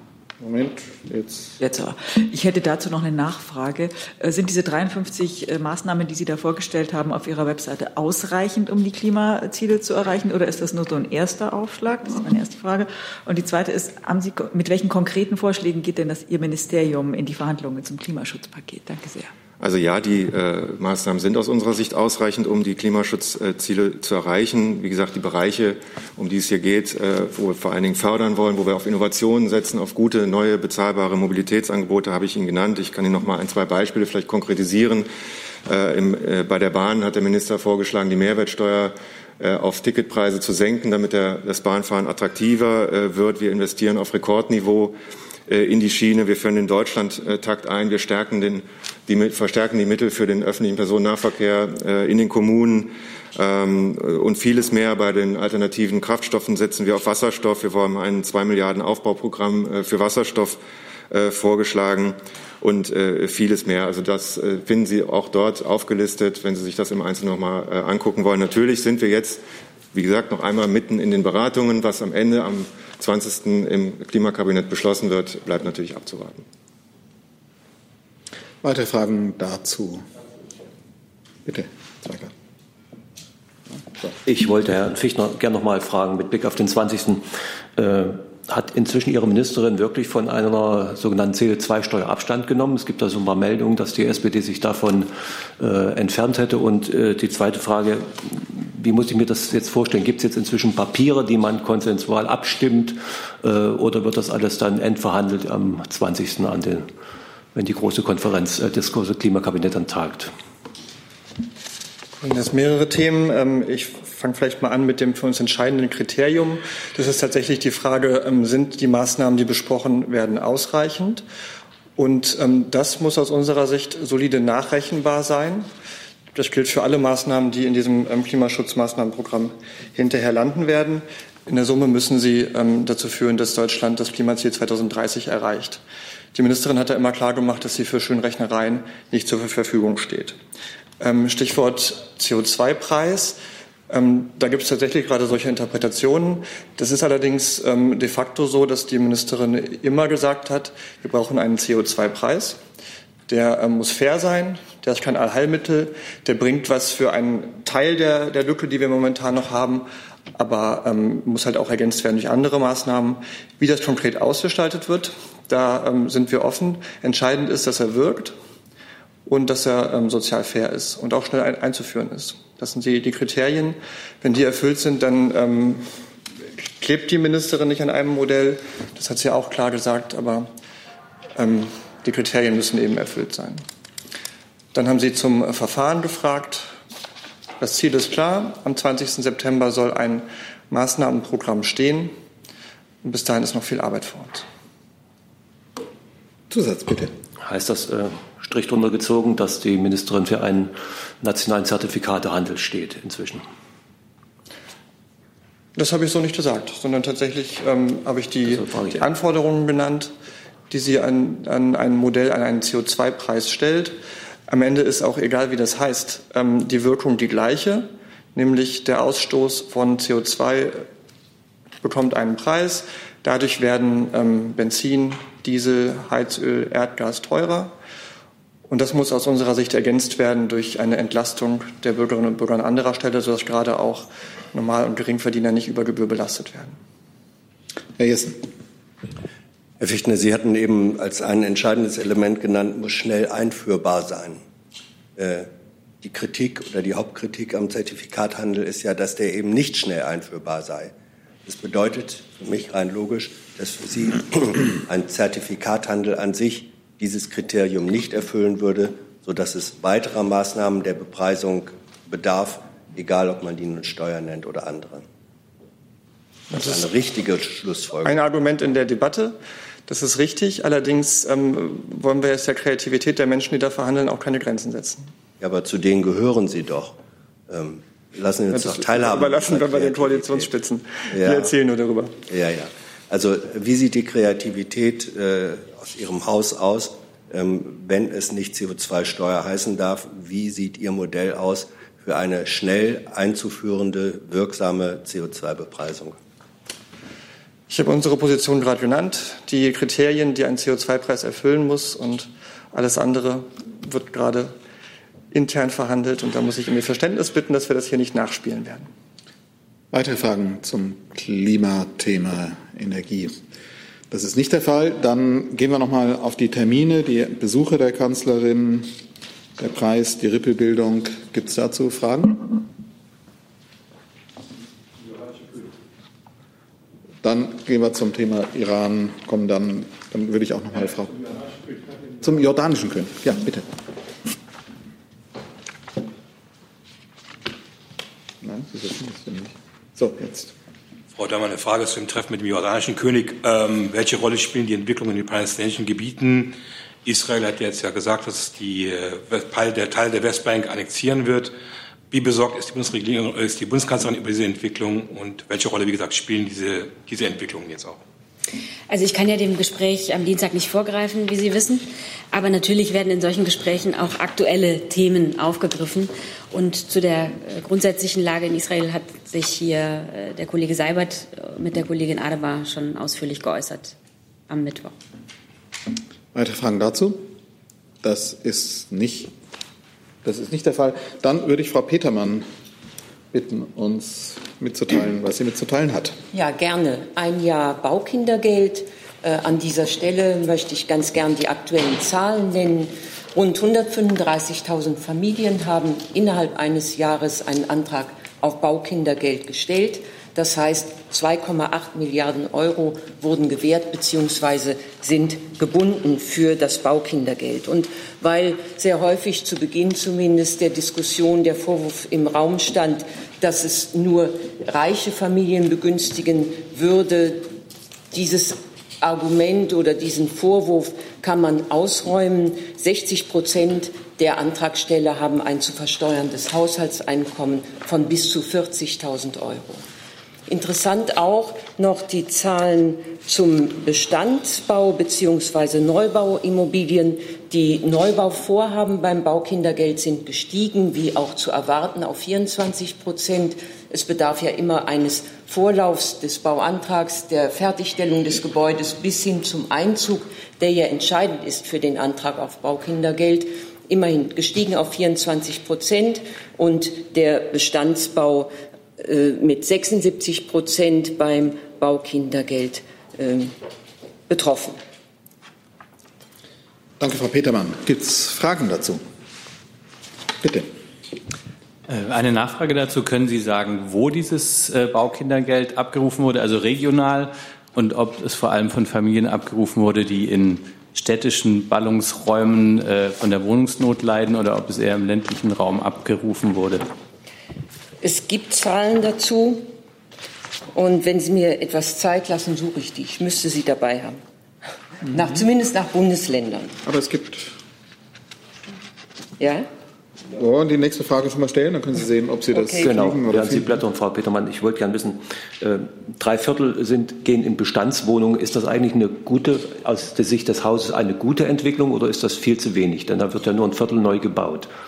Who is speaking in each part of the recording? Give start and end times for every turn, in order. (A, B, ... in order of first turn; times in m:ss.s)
0:00.4-0:01.6 A
0:01.6-0:19.3 B
0:19.6-0:35.1 C
0:35.7-0:45.0 C
0:45.5-1:00.6 C
1:01.1-1:09.4 C
1:09.9-1:16.4 C
1:18.6-1:20.0 A
1:21.5-1:22.3 A
1:23.7-1:24.1 A
1:24.2-1:27.2 D
1:27.8-1:46.9 D
1:47.6-1:50.3 D
1:52.2-2:01.2 E
2:02.0-2:05.7 E
2:06.4-2:15.8 E
2:16.3-2:20.4 E
2:21.0-2:23.4 E
2:23.9-2:32.6 E
2:33.3-2:39.8 E
2:40.4-2:48.4 E
2:49.3-2:55.8 E
2:56.8-3:00.5 E
3:01.4-3:03.6 E
3:04.7-3:06.7 E
3:07.6-3:12.1 E
3:13.0-3:14.4 E
3:16.5-3:17.1 A
3:17.4-3:23.4 D
3:25.8-3:30.1 E
3:28.4-3:29.1 D
3:30.7-3:34.0 E
3:34.5-3:40.9 E
3:41.8-3:47.7 E
3:48.7-3:56.8 E
3:58.0-3:58.4 A
3:59.8-4:04.4 F
4:05.2-4:05.5 F
4:06.0-4:10.9 F
4:11.4-4:25.0 F
4:26.5-4:28.2 F
4:28.0-4:29.4 E
4:29.9-4:35.1 E
4:35.4-4:37.0 F
4:37.5-4:40.6 F
4:38.5-4:42.1 E
4:41.1-4:41.6 F
4:42.3-4:56.2 F
4:57.7-5:04.5 E
5:05.3-5:08.9 E
5:09.9-5:13.4 A
5:14.1-5:18.9 A
5:19.6-5:22.6 A
5:27.2-5:31.5 A
5:32.2-5:33.6 A
5:38.4-5:40.5 A
5:41.1-5:51.5 G
5:52.1-5:58.0 G
5:58.9-6:14.0 H
6:14.5-6:15.0 H
6:16.3-6:17.3 A
6:18.0-6:19.3 A
6:20.2-6:22.4 A
6:23.3-6:26.2 A
6:26.3-6:57.5 I
6:58.1-7:09.8 I
7:10.5-7:43.5 I
7:44.3-7:44.8 I
7:47.0-7:49.0 A
7:50.4-7:50.7 A
7:51.9-8:06.9 J
8:08.0-8:09.7 I
8:10.7-8:14.2 I
8:15.1-8:16.8 I
8:16.8-8:17.6 A
8:19.4-8:19.7 I
8:20.3-8:23.8 A
8:22.5-8:23.0 I
8:22.8-8:34.7 D